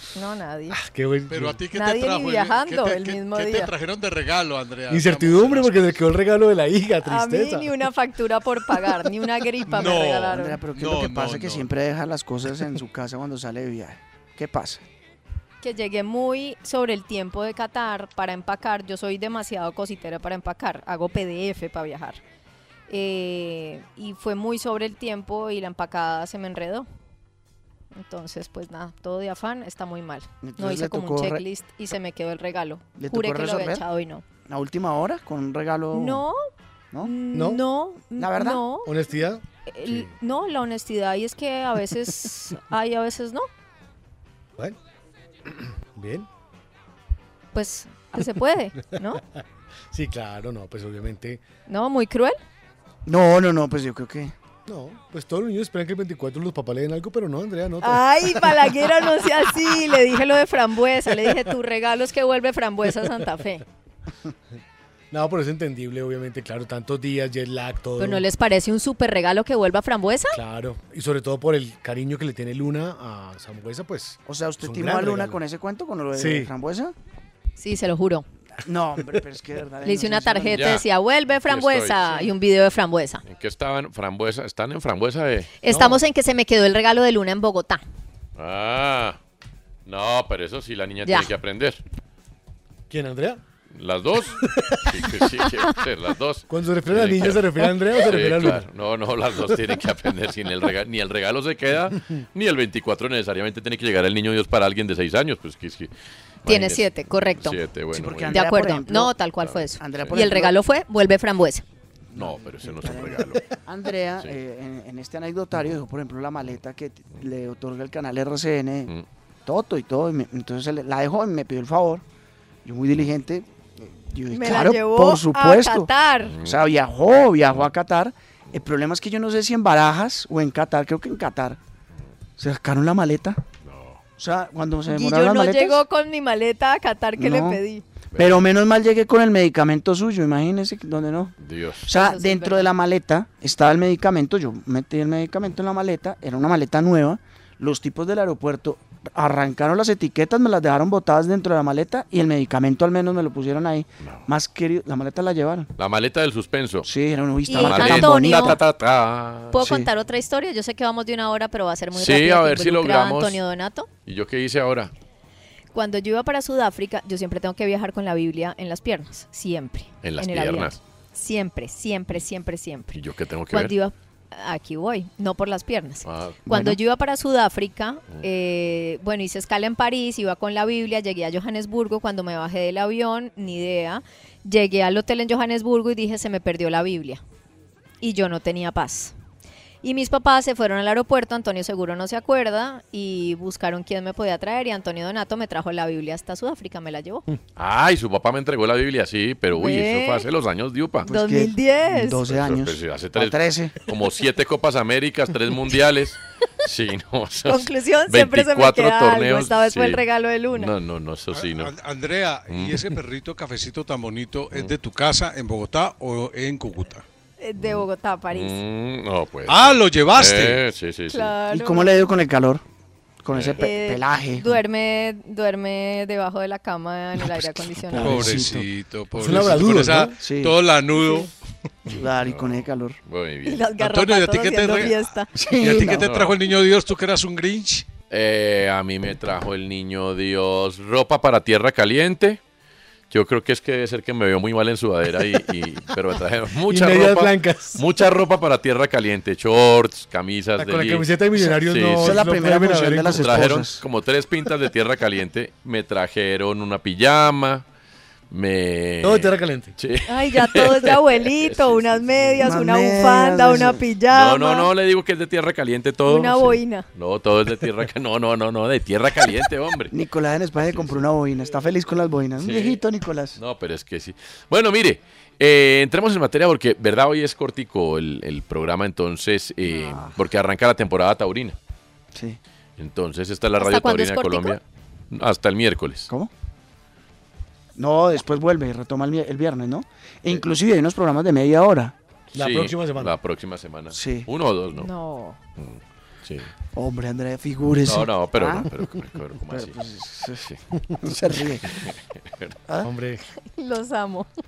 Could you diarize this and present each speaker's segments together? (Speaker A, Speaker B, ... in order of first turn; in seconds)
Speaker A: 0.1-0.8, 1.7-3.7, 7.0-10.6, 15.6-22.2, 22.9-26.9, 27.9-34.2, 35.9-36.4, 37.0-38.9, 39.7-43.5, 47.5-49.2, 51.7-52.4, 57.8-63.6, 68.0-70.4, 77.6-78.2, 79.8-83.2, 85.6-87.8, 106.5-107.6, 108.3-111.6, 124.3-126.3, 134.9-137.8, 141.9-142.7, 157.5-158.6, 159.5-163.9, 165.7-173.0, 173.5-187.2, 188.0-189.1, 189.8-197.3, 199.6-200.2, 201.1-202.2, 207.5-210.7, 217.4-218.6, 221.1-222.1, 223.6-228.3, 233.5-235.3, 260.1-264.7, 266.1-266.9, 283.6-284.6, 294.8-295.4, 303.5-304.3
Speaker B: 0.7-1.6, 4.9-7.7, 37.3-37.6, 38.9-40.1, 45.5-46.3, 49.9-51.4, 54.7-58.7, 65.1-68.2, 70.3-75.4, 76.2-76.5, 85.7-86.0, 92.9-93.4, 94.4-95.3, 96.5-98.7, 229.2-230.2, 246.7-247.8, 250.6-253.6, 259.0-259.8, 292.3-293.2, 302.8-303.2
Speaker C: 1.3-5.9, 9.7-11.7, 211.3-217.0, 219.5-220.6, 228.0-231.3, 233.8-237.9
Speaker D: 10.3-14.8, 30.4-31.4, 33.0-33.8, 34.5-36.2, 38.2-38.6, 53.1-54.3, 74.3-76.9, 78.6-80.8, 107.9-109.1, 109.8-110.5, 112.1-118.9, 119.5-122.0, 122.7-125.9, 126.4-131.6, 132.4-133.4, 134.2-135.8, 137.2-137.6, 138.2-155.7, 156.8-158.6, 159.6-159.9, 176.5-176.8, 201.1-203.8, 221.5-222.6, 223.2-224.5, 227.9-228.7, 230.2-230.6, 231.9-233.0, 235.3-236.1, 252.0-253.8, 262.4-263.8, 269.9-273.4, 279.7-280.1, 287.8-291.9, 293.9-294.3, 296.8-298.7, 299.5-300.5, 301.0-301.9
Speaker E: 80.5-80.8, 81.5-82.2, 83.3-85.5, 88.4-89.2, 89.9-91.8, 93.8-105.9, 106.4-108.4, 109.4-110.1, 112.2-113.5, 126.3-126.6, 133.7-134.0, 138.1-138.4, 141.4-141.9, 155.8-156.9, 157.6-159.8, 161.9-163.4, 164.1-164.9, 170.0-170.8, 172.9-173.7, 176.1-176.4, 197.6-201.1, 202.3-211.7, 212.5-212.8, 217.6-221.3, 223.3-223.6, 232.2-233.7, 235.8-236.3, 238.1-242.4, 243.1-252.4, 253.0-257.6, 258.3-262.4, 264.1-269.9, 270.6-271.1, 272.4-272.8, 273.4-281.6, 282.8-286.1, 292.4-294.9, 295.6-296.5, 297.9-299.8, 301.8-302.5